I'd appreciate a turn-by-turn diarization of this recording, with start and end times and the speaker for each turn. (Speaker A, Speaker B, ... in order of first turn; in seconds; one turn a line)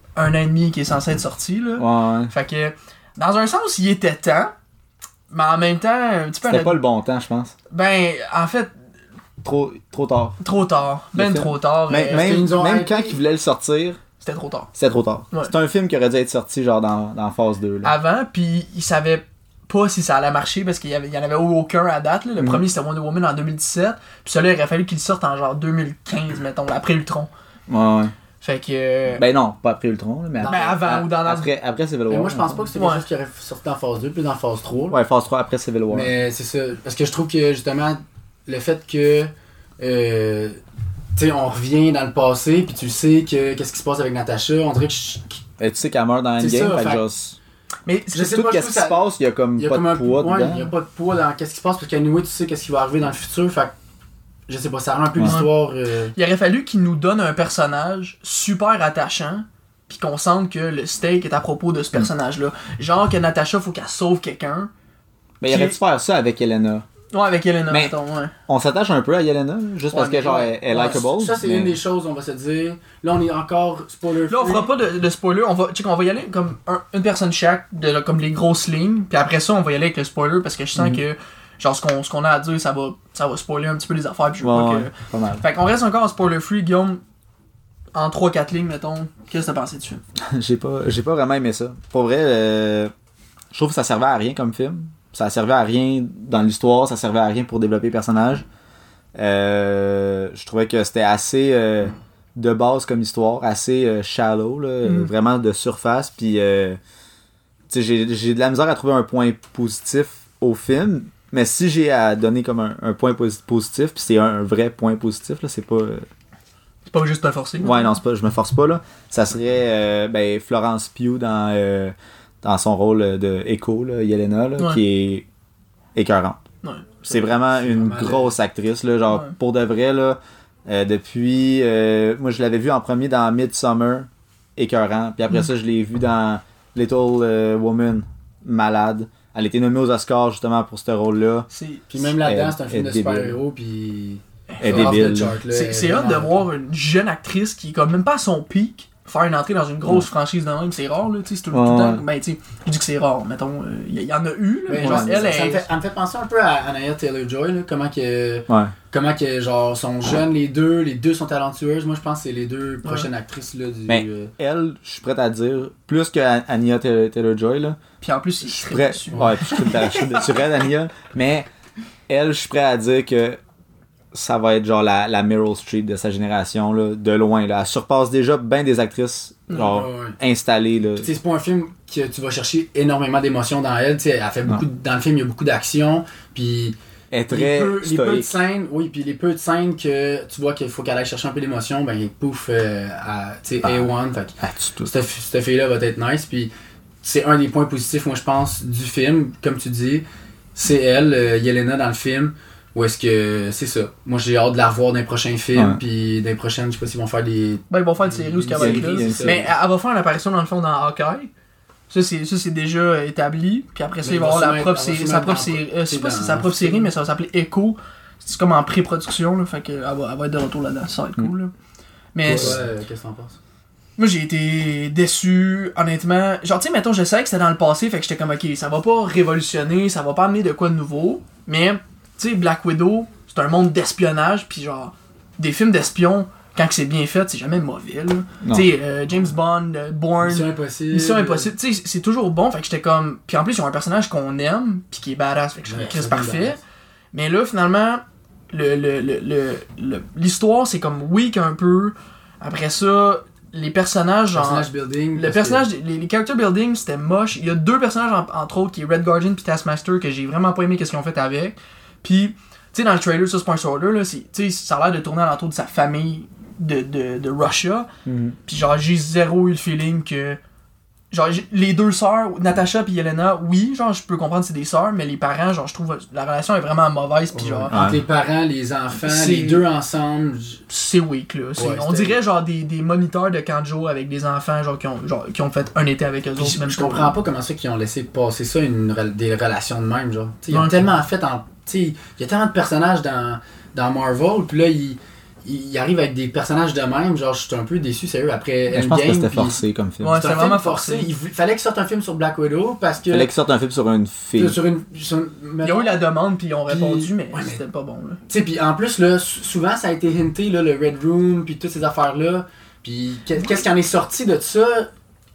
Speaker A: 0.1-4.5
Speaker B: 1.8-2.3
Speaker A: 5.3-6.8
Speaker B: 6.4-7.5
Speaker A: 7.7-8.7
Speaker B: 9.4-10.4
Speaker A: 10.4-12.3
Speaker B: 11.1-14.0
Speaker C: 12.1-13.2
Speaker A: 14.2-14.7
Speaker B: 14.7-17.9
Speaker A: 17.8-27.3
Speaker B: 27.7-28.1
Speaker A: 28.4-29.2
Speaker B: 29.1-32.7
Speaker A: 30.4-31.5
Speaker C: 30.4-30.7
Speaker C: 32.1-35.0
Speaker A: 32.8-33.0
Speaker B: 34.9-36.1
Speaker C: 35.9-40.6
Speaker C: 41.1-45.4
Speaker B: 45.6-47.4
Speaker C: 46.4-47.0
Speaker A: 47.9-48.4
Speaker C: 48.1-53.7
Speaker B: 48.2-50.7
Speaker C: 54.5-56.1
Speaker A: 55.2-55.5
Speaker A: 56.1-64.7
Speaker B: 65.4-66.8
Speaker A: 65.5-65.8
Speaker A: 67.1-68.3
Speaker B: 67.7-67.9
Speaker B: 68.5-71.8
Speaker A: 69.9-71.0
Speaker C: 70.7-74.7
Speaker A: 74.3-87.0
Speaker B: 80.8-81.0
Speaker B: 84.4-85.4
Speaker A: 87.9-90.0
Speaker B: 90.3-92.9
Speaker B: 93.5-98.4
Speaker B: 99.1-106.8
Speaker A: 104.8-105.1
Speaker B: 107.7-116.0
Speaker A: 116.8-117.9
Speaker B: 117.6-125.2
Speaker B: 125.9-126.4
Speaker A: 126.6-127.2
Speaker B: 127.0-141.5
Speaker C: 127.5-128.3
Speaker A: 129.1-129.3
Speaker A: 141.5-141.8
Speaker C: 141.9-146.4
Speaker B: 142.0-143.4
Speaker A: 144.5-155.6
Speaker B: 144.6-145.4
Speaker B: 151.5-152.0
Speaker C: 154.7-164.3
Speaker B: 154.8-155.2
Speaker B: 158.5-158.7
Speaker B: 163.9-167.8
Speaker A: 168.0-170.1
Speaker B: 168.5-171.5
Speaker C: 169.1-170.4
Speaker B: 172.1-173.4
Speaker B: 174.1-181.1
Speaker C: 179.5-180.2
Speaker C: 181.0-186.8
Speaker B: 187.1-188.3
Speaker C: 187.3-196.5
Speaker B: 193.6-193.9
Speaker B: 194.4-194.9
Speaker C: 197.0-200.0
Speaker C: 200.6-209.4
Speaker B: 205.5-205.8
Speaker A: 207.7-211.3
Speaker B: 208.5-209.5
Speaker A: 211.9-221.5
Speaker C: 214.0-216.9
Speaker A: 222.1-222.6
Speaker B: 222.2-222.6
Speaker C: 222.3-223.4
Speaker A: 224.0-246.6
Speaker B: 238.4-238.7
Speaker C: 240.2-241.5
Speaker C: 245.7-246.6
Speaker A: 247.1-267.9
Speaker C: 254.3-255.6
Speaker B: 268.1-268.4
Speaker A: 268.4-270.4
Speaker A: 271.1-277.7
Speaker C: 277.4-280.6
Speaker B: 277.7-278.0
Speaker A: 279.0-279.6
Speaker A: 280.7-287.1
Speaker C: 281.6-282.2
Speaker C: 286.4-303.3
Speaker A: 290.5-290.9
Speaker B: 298.7-300.2
Speaker A: 300.0-301.1
Speaker B: 303.1-304.6
Speaker C: 304.4-306.0
Speaker A: 305.6-308.2
Speaker C: 306.7-307.6
Speaker C: 308.3-314.9